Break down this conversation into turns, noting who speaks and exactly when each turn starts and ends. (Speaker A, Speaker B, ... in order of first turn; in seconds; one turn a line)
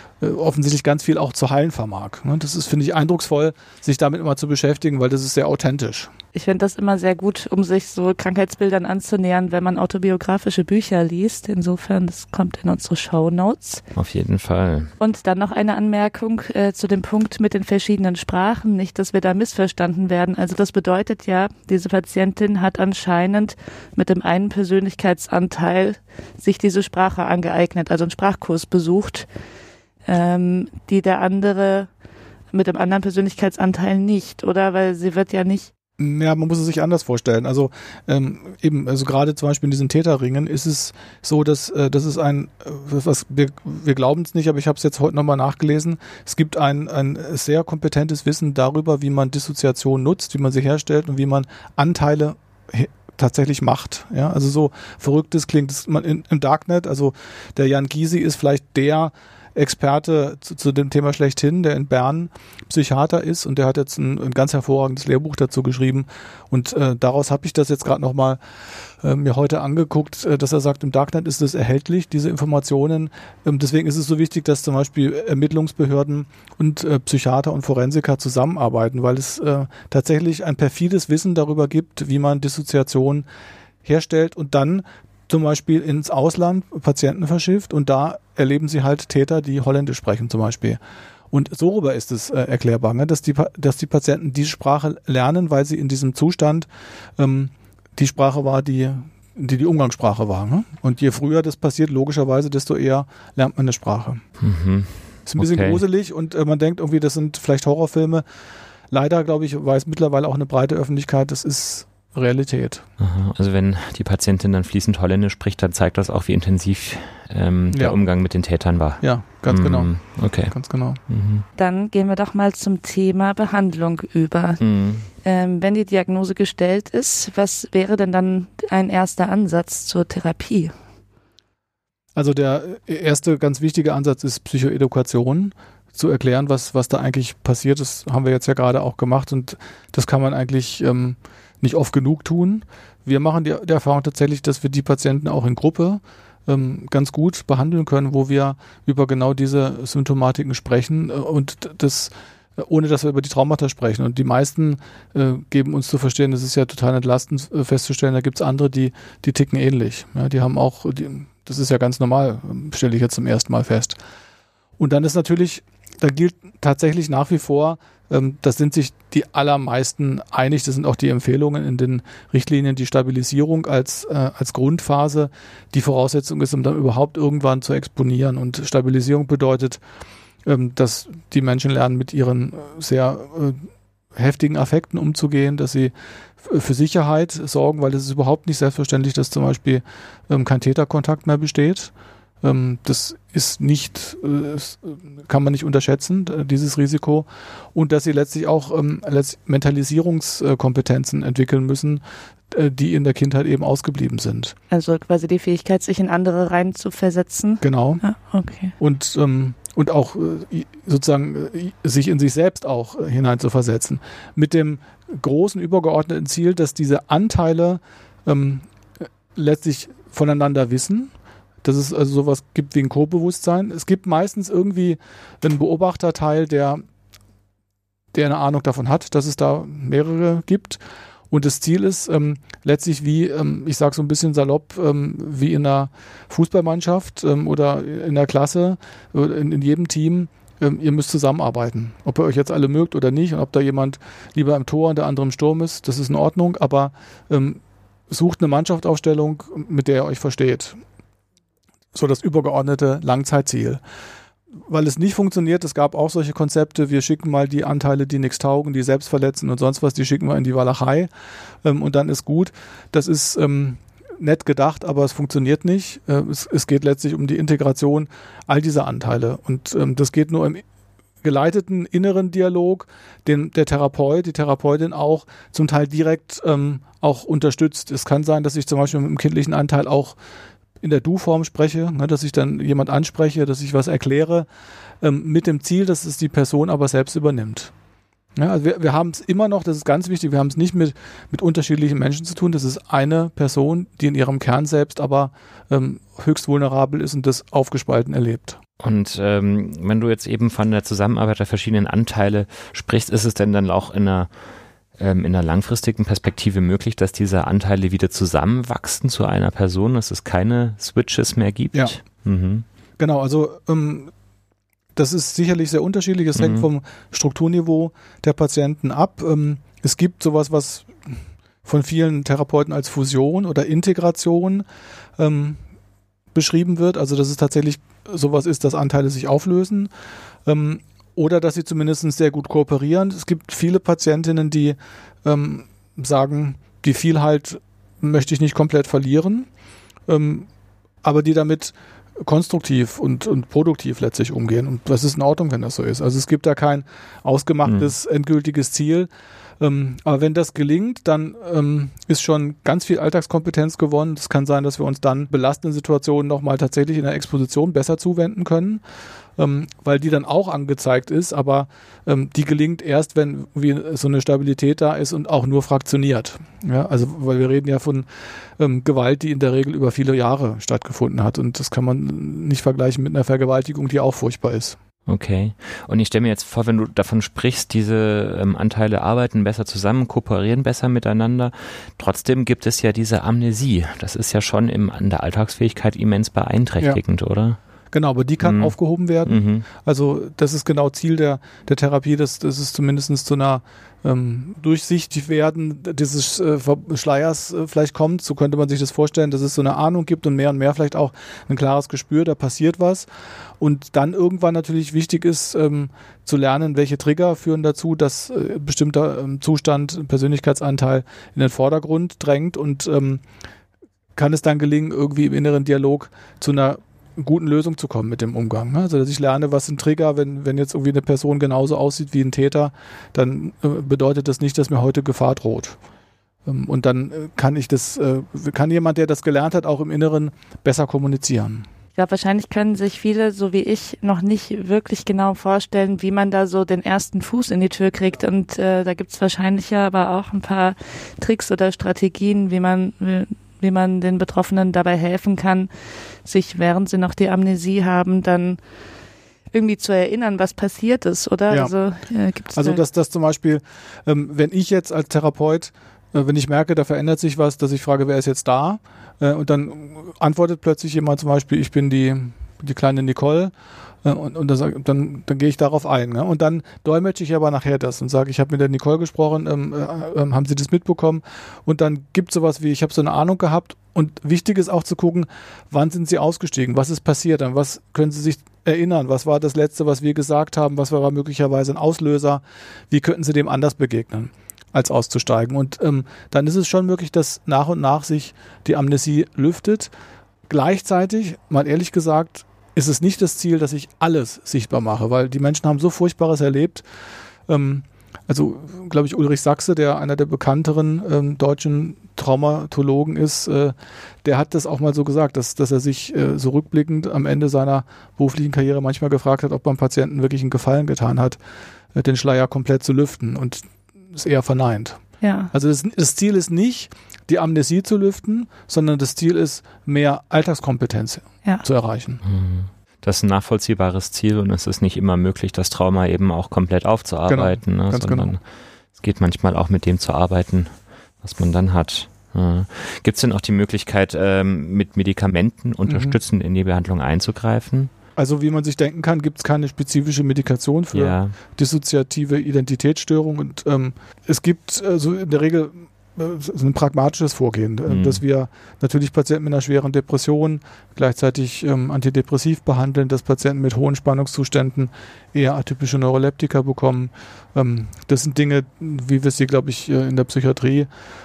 Speaker A: 0.2-6.1
Speaker B: 6.3-13.8
Speaker C: 13.9-14.9
Speaker B: 15.0-29.3
Speaker B: 30.1-31.9
Speaker B: 32.5-35.7
Speaker A: 36.0-68.4
Speaker A: 69.0-83.2
Speaker A: 83.8-90.8
Speaker A: 91.3-104.2
Speaker C: 104.4-105.8
Speaker A: 105.3-108.2
Speaker A: 108.9-112.8
Speaker C: 113.0-120.5
Speaker A: 117.7-118.0
Speaker A: 119.0-119.9
Speaker A: 120.5-121.0
Speaker C: 121.1-121.4
Speaker B: 121.5-130.7
Speaker C: 124.6-125.1
Speaker A: 132.2-164.0
Speaker A: 164.8-179.8
Speaker A: 180.4-204.5
Speaker B: 204.7-208.7
Speaker A: 207.6-208.0
Speaker A: 208.8-218.7
Speaker A: 219.3-221.1
Speaker A: 221.6-226.8
Speaker A: 228.1-250.8
Speaker A: 251.9-253.8
Speaker A: 254.7-261.1
Speaker A: 261.6-270.6
Speaker A: 271.2-280.2
Speaker A: 280.8-284.5
Speaker A: 285.0-287.7
Speaker A: 288.4-298.6
Speaker C: 298.8-304.3
Speaker C: 305.0-312.6
Speaker A: 313.0-314.1
Speaker A: 314.9-321.1
Speaker C: 316.3-316.7
Speaker A: 321.6-324.6
Speaker A: 325.2-325.6
Speaker A: 326.3-329.9
Speaker A: 330.4-339.5
Speaker A: 340.1-340.5
Speaker A: 341.0-349.1
Speaker C: 347.6-347.9
Speaker A: 349.6-358.8
Speaker A: 359.4-374.8
Speaker C: 375.1-387.6
Speaker A: 387.9-403.1
Speaker C: 388.4-389.6
Speaker A: 403.6-413.2
Speaker A: 414.1-425.8
Speaker A: 426.4-431.6
Speaker B: 432.0-445.7
Speaker B: 446.2-448.6
Speaker B: 449.5-452.8
Speaker A: 452.6-463.5
Speaker A: 464.0-489.9
Speaker A: 490.5-496.8
Speaker A: 497.5-511.4
Speaker A: 511.9-515.0
Speaker B: 515.2-515.5
Speaker A: 515.5-522.2
Speaker C: 522.2-528.4
Speaker A: 527.3-528.3
Speaker C: 528.9-537.9
Speaker A: 535.9-536.1
Speaker A: 538.1-560.9
Speaker C: 540.9-541.4
Speaker C: 547.9-548.2